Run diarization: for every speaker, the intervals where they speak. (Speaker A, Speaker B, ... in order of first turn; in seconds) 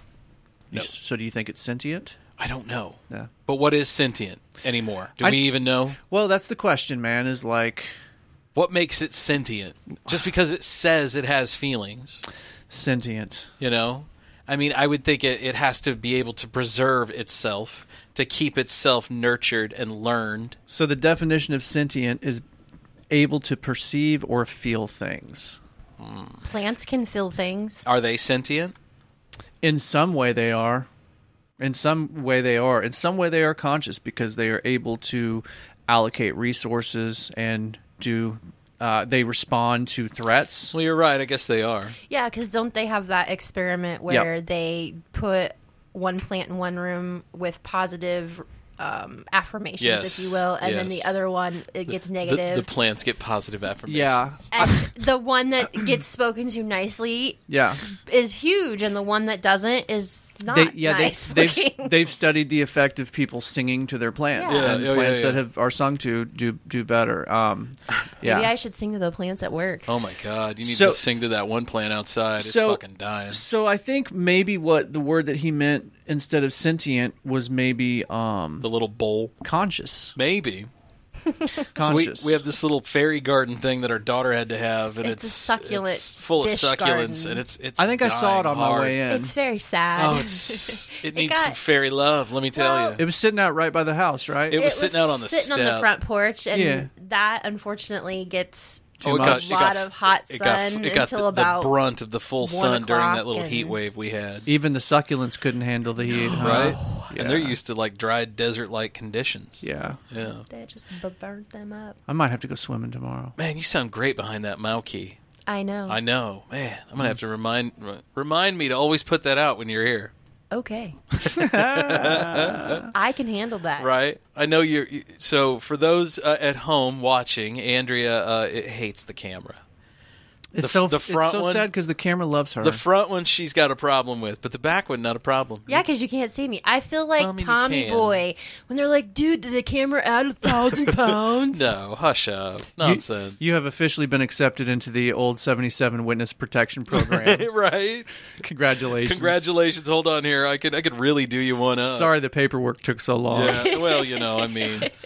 Speaker A: 0.7-2.2, 5.2-5.5, 6.0-7.9, 12.7-13.5, 20.7-22.4, 23.1-25.6, 29.6-30.9, 31.6-40.7, 53.9-54.8, 57.5-57.8, 60.5-68.5, 70.7-71.0, 72.4-78.7, 79.4-80.1, 81.7-82.4, 87.8-89.3, 93.0-94.6, 96.5-96.9, 99.0-99.6, 104.5-107.6, 109.6-110.0, 112.1-113.3, 121.3-122.9, 130.5-132.8, 142.8-147.5, 148.4-149.4, 151.8-153.7
Speaker B: 2.4-6.0, 8.5-12.2, 13.6-20.6, 26.0-26.4, 27.8-28.7, 40.7-41.9, 49.8-51.2, 51.9-54.4, 64.5-65.4, 69.8-73.4, 78.6-79.3, 80.2-80.7, 81.8-89.0, 90.0-93.0, 94.5-95.9, 99.0-104.5, 106.3-110.5, 113.4-115.2, 115.9-120.1, 121.2-122.8, 123.8-129.6, 130.6-131.7, 132.6-135.8, 137.2-138.2, 140.9-143.5, 146.9-148.1, 149.0-152.1, 153.3-154.9
Speaker C: 26.4-27.8, 42.1-52.7, 54.5-62.0, 64.3-64.7, 68.2-69.9, 85.0-87.4, 89.1-91.6, 92.5-93.0, 94.5-101.8, 102.4-103.8, 106.1-107.1, 110.2-112.0, 115.5-116.0, 120.5-121.0, 122.9-123.9, 135.7-141.6, 153.5-154.9